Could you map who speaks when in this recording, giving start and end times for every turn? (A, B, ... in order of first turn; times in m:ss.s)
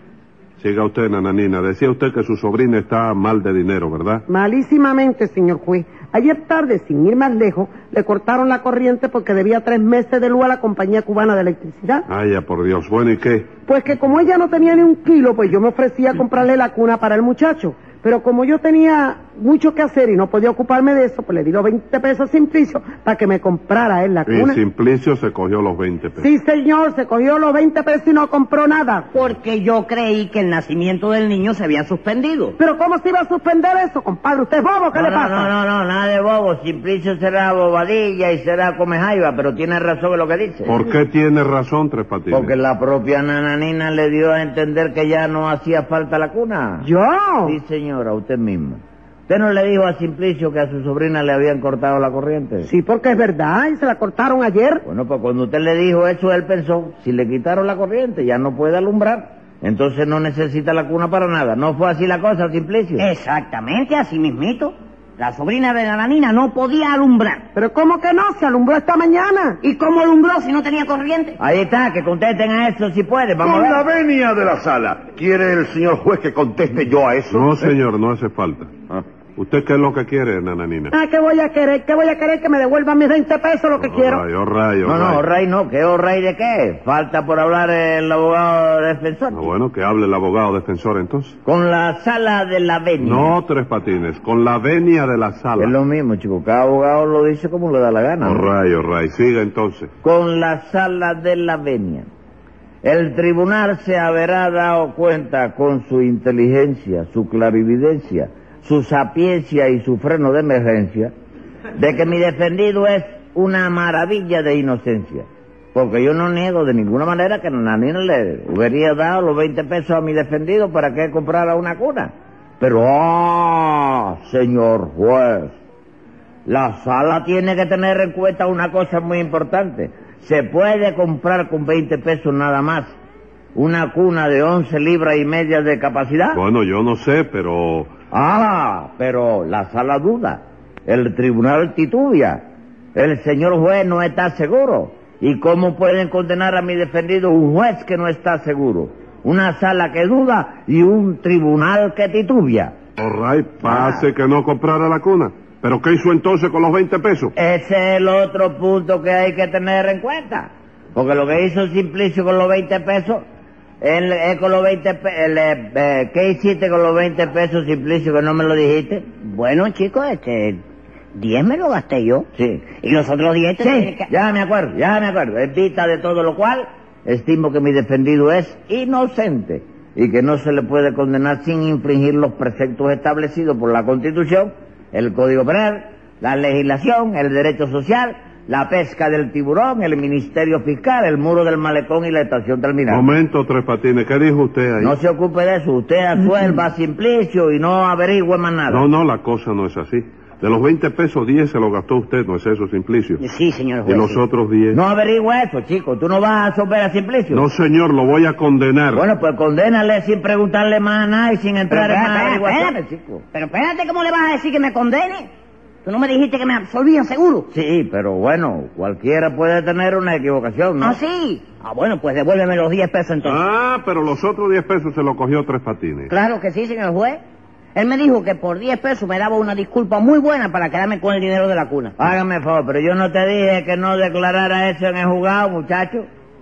0:00.6-0:04.2 A
0:04.3-0:12.0 B
0:12.1-0:13.5 A
0:13.6-0:24.6 B
0:24.3-0:26.3 A
0:26.2-0:29.1 B
0:29.1-0:32.6 C
0:32.6-0:35.5 B
0:34.9-0:40.7 D
0:40.6-0:42.5 A
0:42.3-0:46.9 D
0:46.8-0:47.6 B
0:47.4-0:52.7 D
0:52.6-0:54.8 B
0:54.8-1:03.1 D
1:03.0-1:07.4 C
1:07.6-1:09.6 B
1:09.6-1:11.4 C
1:11.4-1:13.8 D
1:13.4-1:17.8 E
1:17.3-1:18.8 A
1:19.4-1:20.9 A
1:20.9-1:24.2 B
1:23.8-1:25.2 A
1:24.8-1:29.5 D
1:29.3-1:31.4 A
1:31.4-1:33.3 D
1:33.0-1:35.7 A
1:35.6-1:38.5 D
1:38.2-1:39.9 A
1:40.0-1:42.1 D
1:42.8-1:51.1 D
1:51.8-2:05.5 D
2:06.4-2:13.0 D
2:13.5-2:16.4 D
2:16.3-2:17.9 A
2:18.1-2:22.4 D
2:22.9-2:32.8 D
2:33.0-2:37.3 A
2:33.6-2:34.0 D
2:37.4-2:43.2 D
2:43.8-2:49.0 D
2:49.2-2:50.6 C
2:51.1-2:52.2 C
2:52.3-2:52.7 D
2:52.8-2:54.1 C
2:53.6-3:13.1 D
3:12.9-3:15.0 A
3:14.8-3:18.8 D
3:18.7-3:23.2 A
3:23.2-3:24.2 C
3:23.8-3:24.8 A
3:24.7-3:27.4 D
3:27.3-3:29.0 A
3:28.9-3:33.2 D
3:31.7-3:32.8 C
3:33.3-3:35.3 C
3:35.8-3:37.5 C
3:37.5-3:41.0 D
3:40.8-3:43.4 C
3:43.2-3:46.1 A
3:46.1-3:47.2 C
3:47.7-3:52.1 C
3:52.0-3:56.1 D